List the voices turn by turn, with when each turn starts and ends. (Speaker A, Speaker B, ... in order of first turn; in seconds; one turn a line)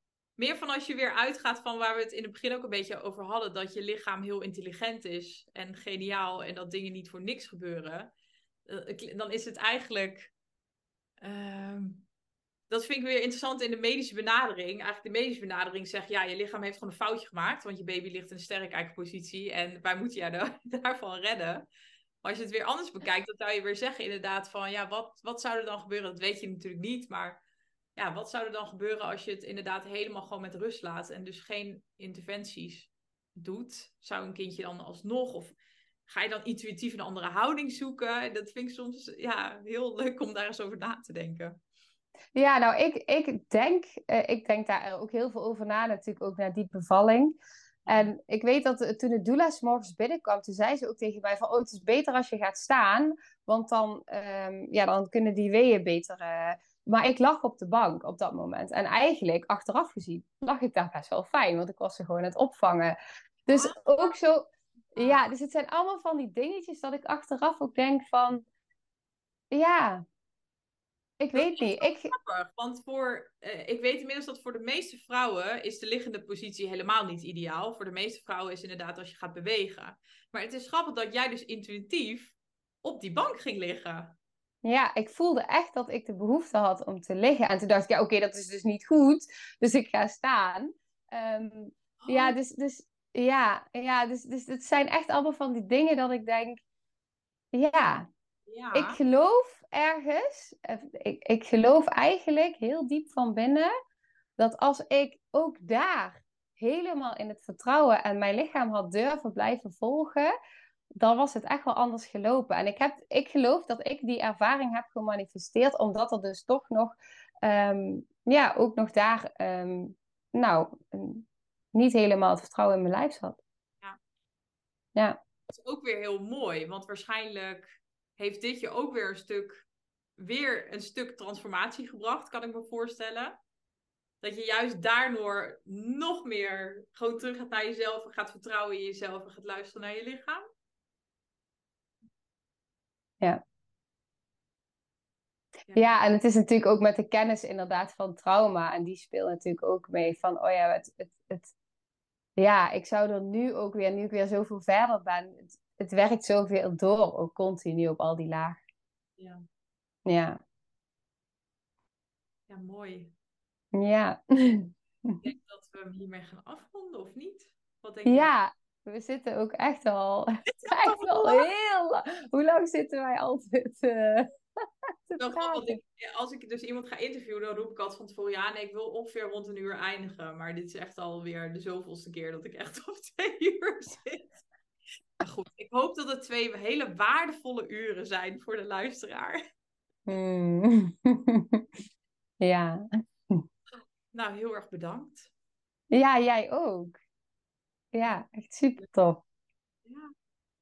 Speaker A: 0.4-8.1
Speaker A: 8.7-10.3
Speaker A: 11.2-12.1
Speaker A: 12.7-21.7
Speaker A: 22.2-27.4
Speaker A: 28.0-35.5
Speaker A: 36.1-41.6
Speaker B: 42.4-68.5
Speaker A: 63.5-64.2
Speaker A: 65.0-65.3
Speaker B: 69.5-70.0
Speaker B: 71.2-72.1
Speaker A: 71.3-84.2
Speaker B: 84.6-96.6
Speaker A: 92.0-92.4
Speaker B: 97.5-98.1
Speaker A: 98.5-99.0
Speaker B: 98.7-103.7
Speaker B: 104.4-110.3
Speaker B: 111.0-123.4
Speaker A: 125.5-133.4
Speaker A: 134.2-140.4
Speaker A: 145.7-146.0
Speaker B: 145.8-151.5
Speaker B: 152.4-158.6
Speaker A: 159.2-159.4
Speaker B: 160.1-160.4
Speaker A: 162.5-163.1
Speaker B: 163.7-165.2
Speaker A: 165.2-168.3
Speaker B: 168.1-174.3
Speaker A: 170.5-171.5
Speaker B: 175.1-175.8
Speaker A: 175.2-184.3
Speaker A: 185.2-189.4
Speaker B: 190.1-191.6
Speaker B: 192.4-193.4
Speaker A: 194.1-195.3
Speaker B: 195.9-197.0
Speaker B: 197.9-199.2
Speaker A: 199.9-200.1